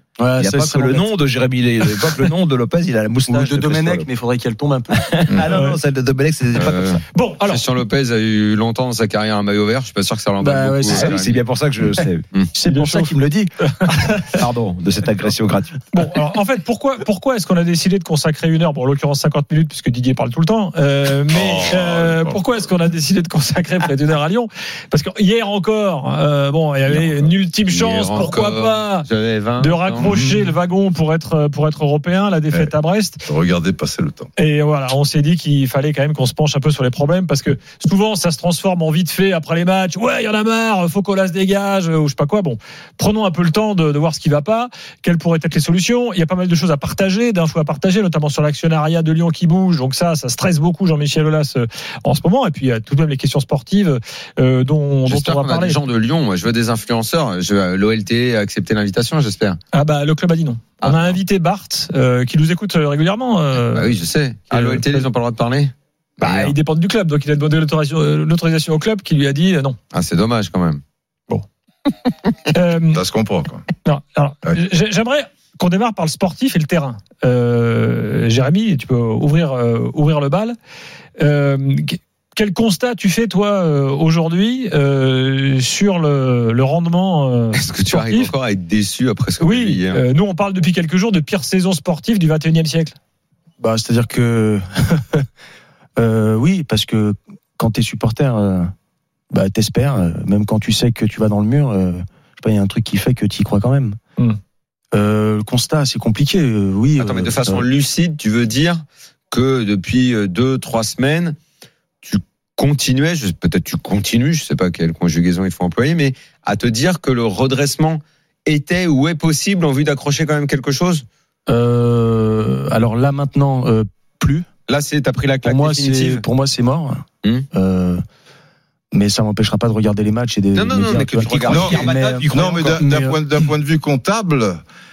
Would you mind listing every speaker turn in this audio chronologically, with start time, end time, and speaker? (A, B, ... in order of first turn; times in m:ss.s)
0:00.2-0:01.1 A
0:00.4-0:04.1 B
0:03.3-0:05.0 A
0:05.0-0:07.0 B
0:05.5-0:05.8 C
0:06.6-0:11.4 D
0:07.1-0:07.7 C
0:10.4-0:11.1 A
0:10.9-0:12.2 B
0:12.6-0:13.5 A
0:12.6-0:13.2 C
0:13.7-0:14.5 C
0:14.3-0:15.8 B
0:15.9-0:29.1 C
0:21.3-0:22.6 E
0:26.9-0:30.2 D
0:29.6-0:33.2 C
0:30.1-0:30.5 E
0:33.3-0:34.3 E
0:34.4-0:55.8 C
0:55.0-0:59.6 D
0:59.7-1:04.0 C
1:00.8-1:01.2 D
1:03.6-1:06.5 D
1:04.5-1:05.1 C
1:06.2-1:09.8 C
1:09.9-1:10.8 D
1:12.5-1:13.0 C
1:12.9-1:13.6 E
1:13.8-1:20.6 C
1:21.2-1:28.3 C
1:27.5-1:30.0 D
1:29.4-1:32.9 C
1:33.6-1:35.3 A
1:36.0-1:38.7 A
1:39.3-1:44.0 A
1:44.9-1:47.6 A
1:47.0-1:51.4 D
1:52.0-2:01.0 D
2:01.5-2:04.5 A
2:04.7-2:06.2 D
2:05.4-2:08.0 A
2:08.9-2:13.5 A
2:10.5-2:12.6 D
2:11.5-2:14.6 E
2:11.6-2:12.8 B